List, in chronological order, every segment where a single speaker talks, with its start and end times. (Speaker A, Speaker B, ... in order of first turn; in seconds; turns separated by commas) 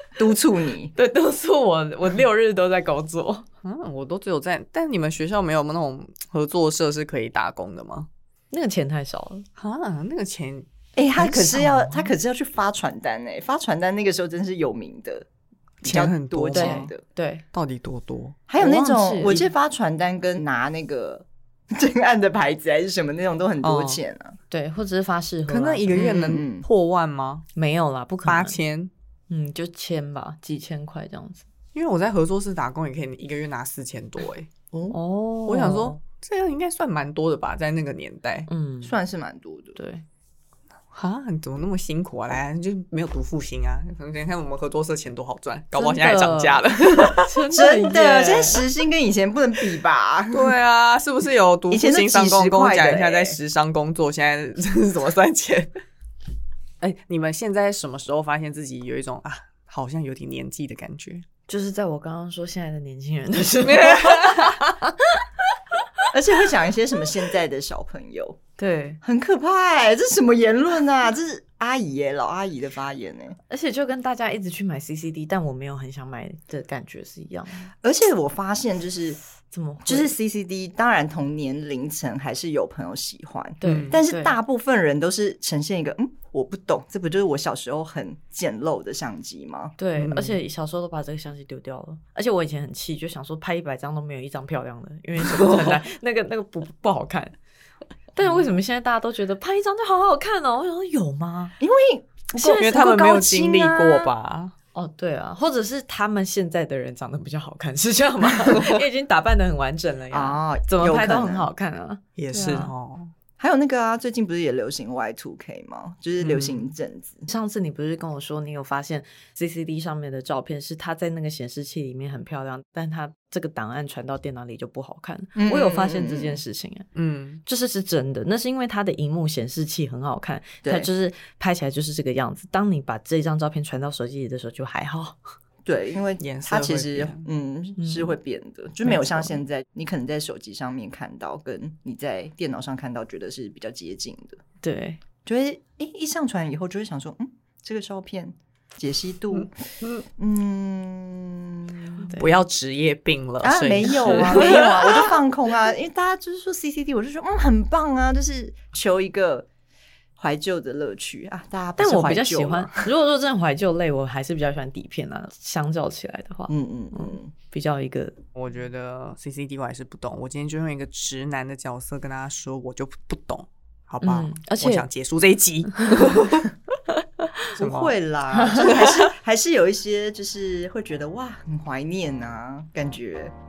Speaker A: 0.2-0.9, Speaker B: 0.9-3.5, Speaker C: 3.6-8.1, Speaker B: 8.5-9.4, Speaker C: 9.6-12.1, Speaker A: 11.0-15.3, Speaker C: 15.8-16.9, Speaker A: 15.8-17.0, Speaker B: 16.5-17.4, Speaker C: 17.5-18.4, Speaker A: 18.5-24.4, Speaker B: 18.6-19.5, Speaker C: 23.6-24.0, Speaker B: 24.5-26.4, Speaker C: 25.5-27.5, Speaker A: 25.9-26.6, Speaker B: 27.6-28.6, Speaker C: 28.2-28.9, Speaker B: 29.3-31.4, Speaker C: 31.7-34.5, Speaker A: 34.7-35.0, Speaker B: 34.9-36.0, Speaker C: 35.5-38.5, Speaker B: 38.5-39.0, Speaker A: 38.8-39.8, Speaker B: 39.8-40.0, Speaker C: 40.9-47.4, Speaker B: 45.8-48.6, Speaker A: 47.5-50.6, Speaker C: 50.3-55.7, Speaker A: 51.7-53.4, Speaker C: 56.8-61.2, Speaker B: 61.5-66.0, Speaker C: 63.6-64.7, Speaker A: 66.1-68.4, Speaker B: 68.6-69.0, Speaker A: 69.0-73.4, Speaker B: 73.5-77.7, Speaker A: 77.8-79.2, Speaker B: 79.5-80.1, Speaker A: 79.9-89.8, Speaker B: 83.6-84.4, Speaker C: 83.6-84.0, Speaker B: 89.8-97.3, Speaker C: 90.0-90.4, Speaker C: 95.3-95.8, Speaker B: 98.1-101.6, Speaker A: 101.6-104.1, Speaker B: 102.3-103.0, Speaker C: 102.4-104.5, Speaker B: 104.8-112.7, Speaker C: 108.5-108.8, Speaker A: 110.1-111.5, Speaker C: 112.2-113.1, Speaker A: 113.4-117.3, Speaker C: 116.2-116.7, Speaker B: 117.3-126.9, Speaker A: 125.4-126.4, Speaker C: 127.0-127.4, Speaker B: 127.5-135.2, Speaker A: 135.7-144.4, Speaker C: 136.2-137.3, Speaker B: 137.8-138.2, Speaker B: 138.8-139.4, Speaker B: 144.6-145.0, Speaker A: 145.2-149.5, Speaker C: 149.3-150.1, Speaker A: 150.2-152.0, Speaker B: 152.0-152.3, Speaker C: 152.2-155.0, Speaker A: 153.4-159.5, Speaker B: 154.0-155.1, Speaker A: 160.2-162.9, Speaker B: 161.8-168.2, Speaker A: 166.5-167.3, Speaker C: 168.4-176.5, Speaker B: 174.0-174.8, Speaker B: 175.8-176.2, Speaker A: 177.6-183.3, Speaker C: 177.6-178.0, Speaker B: 178.3-179.0, Speaker C: 178.6-179.0